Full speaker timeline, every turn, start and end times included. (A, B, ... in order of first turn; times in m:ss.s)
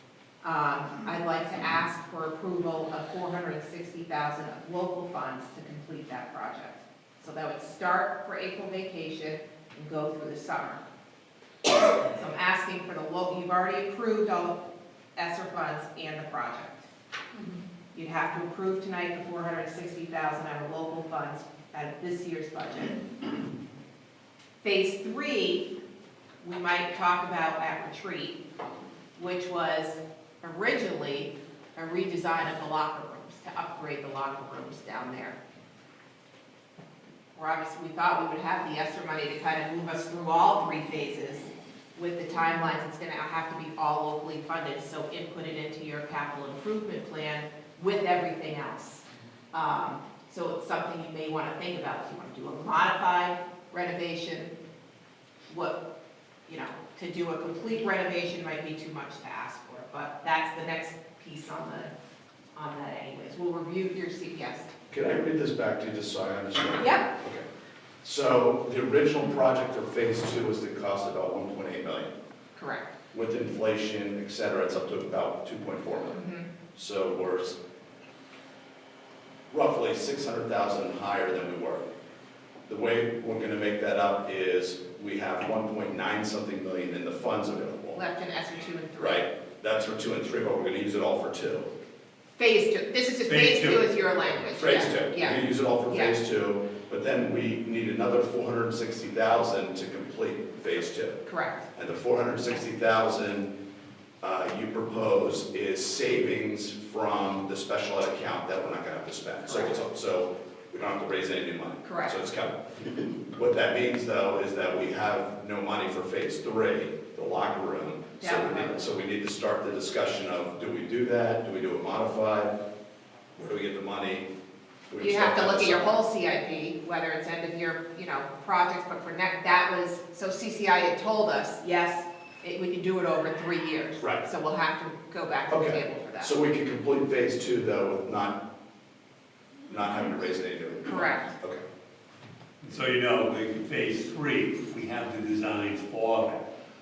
0:00.4-0:10.8 A
0:11.7-0:14.6 A
0:15.2-0:16.9 A
0:17.9-0:23.0 A
0:24.6-0:25.7 A
0:26.4-0:28.4 A
0:29.2-0:35.4 A
0:37.4-0:54.5 A
0:55.5-0:55.8 A
0:56.5-1:01.9 A
1:02.6-1:04.7 A
1:04.9-1:07.4 B
1:06.8-1:07.0 A
1:08.0-1:12.1 B
1:12.6-1:12.9 A
1:13.1-1:16.2 B
1:16.1-1:16.5 A
1:16.8-1:17.6 B
1:19.5-1:21.9 B
1:22.7-1:28.0 B
1:28.0-1:29.2 A
1:29.0-1:31.7 B
1:32.4-1:36.1 A
1:33.2-1:33.9 C
1:34.6-1:41.2 B
1:41.3-1:41.7 A
1:41.8-1:43.5 B
1:44.2-1:52.6 B
1:49.4-1:49.8 A
1:51.8-1:52.2 A
1:53.3-2:02.5 B
1:58.2-1:58.8 A
2:03.4-2:04.3 B
2:04.9-2:06.0 B
2:05.0-2:16.3 A
2:15.5-2:18.4 B
2:19.7-2:21.6 B
2:20.9-2:21.3 A
2:22.6-2:26.5 C